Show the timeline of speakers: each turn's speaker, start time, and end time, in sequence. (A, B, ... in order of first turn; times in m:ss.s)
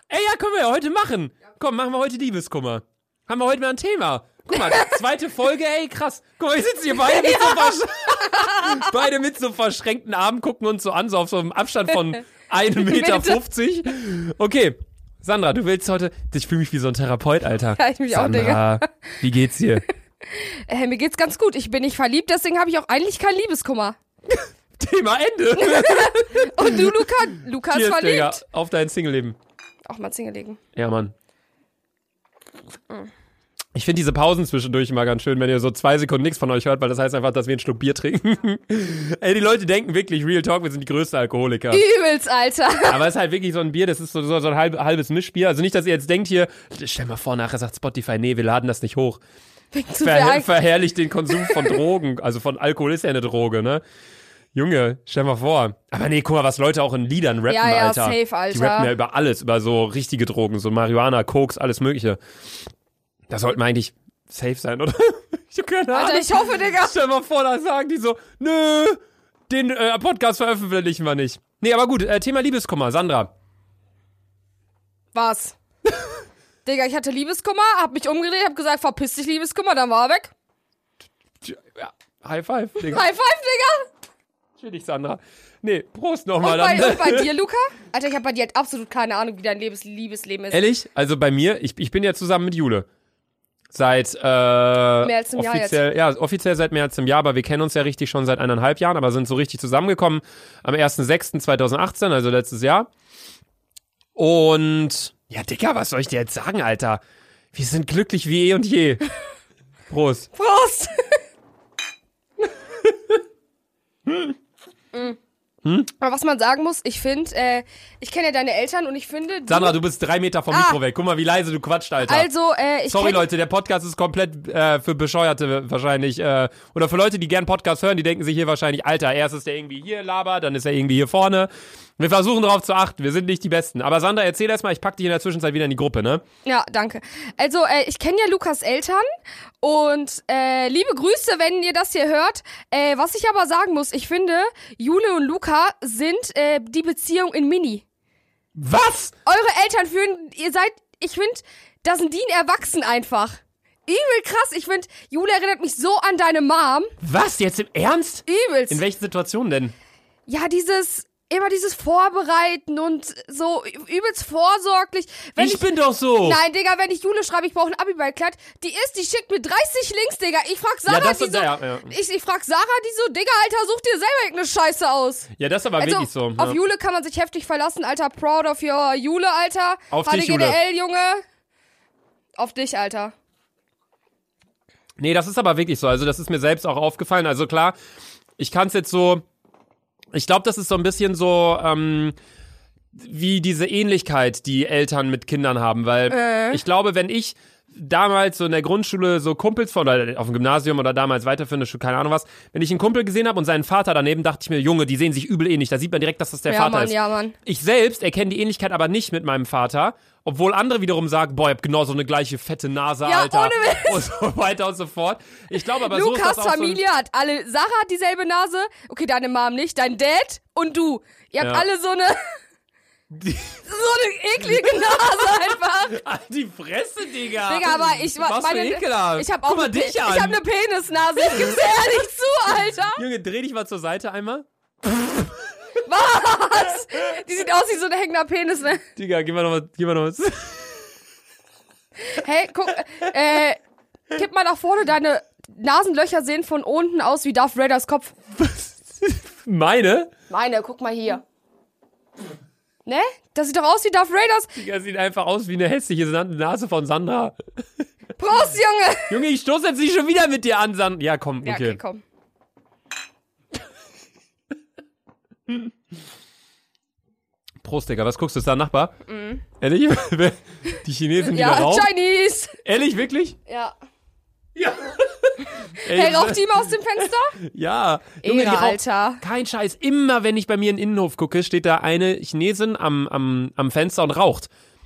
0:00.1-0:19.8 A
0:04.5-0:05.0 B
0:07.0-0:08.9 B
0:12.8-0:13.4 B
0:17.8-0:19.1 B
0:20.2-0:24.0 B
0:24.3-0:29.4 A
0:25.6-0:28.4 B
0:29.9-0:30.6 B
0:30.8-0:31.1 A
0:33.8-0:41.8 A
0:41.7-0:43.0 B
0:42.8-0:49.2 A
0:49.7-0:50.5 B
0:50.0-0:53.8 A
0:51.3-0:51.8 B
0:54.6-1:02.2 A
0:57.5-0:58.9 B
1:03.3-1:13.3 A
1:05.9-1:07.0 B
1:15.1-1:15.6 B
1:16.6-1:20.3 B
1:21.4-1:23.0 A
1:22.8-1:23.9 B
1:24.6-1:27.3 A
1:26.4-1:30.6 B
1:30.5-1:32.9 A
1:33.7-1:42.9 A
1:35.0-1:35.8 B
1:44.2-1:47.0 A
1:47.5-1:49.1 A
1:49.9-1:50.3 A
1:50.3-1:51.2 B
1:52.8-1:53.2 A
1:54.1-1:54.4 A
1:54.9-1:55.2 B
1:55.6-1:55.9 A
1:56.0-1:59.8 B
1:59.5-2:02.3 A
2:00.5-2:00.8 B
2:02.1-2:03.2 B
2:02.9-2:16.2 A
2:16.4-2:19.0 B
2:19.6-2:27.8 B
2:28.6-2:29.1 A
2:29.3-2:36.9 B
2:37.0-2:39.7 A
2:38.3-2:38.8 B
2:40.3-2:45.7 B
2:45.4-2:46.4 A
2:46.2-3:01.2 B
2:50.9-2:52.0 A
2:55.4-2:56.6 A
2:59.9-3:00.6 A
3:02.4-3:03.2 B
3:05.0-3:07.8 A
3:08.4-3:09.2 A
3:10.1-3:12.2 A
3:13.0-3:36.8 A
3:16.1-3:16.6 B
3:26.5-3:27.4 B
3:33.0-3:34.0 B
3:35.8-3:42.2 B
3:41.4-3:41.6 A
3:43.1-3:43.6 A
3:43.7-3:46.0 B
3:45.9-3:50.4 A
3:47.5-3:53.0 B
3:53.0-3:55.3 A
3:55.8-3:58.8 B
3:59.0-4:00.8 A
4:02.0-4:03.6 B
4:04.1-4:08.2 B
4:08.4-4:10.1 A
4:10.3-4:11.2 B
4:12.9-4:14.5 B
4:14.6-4:17.4 A
4:18.2-4:19.2 B
4:19.1-4:21.8 A
4:21.4-4:22.0 B
4:27.6-4:28.9 A
4:29.1-4:29.4 B
4:29.6-4:31.9 A
4:31.2-4:32.6 B
4:32.6-4:33.4 A
4:33.5-4:33.8 B
4:34.6-4:36.7 A
4:35.8-4:37.4 B
4:37.4-4:44.5 A
4:38.2-4:39.2 B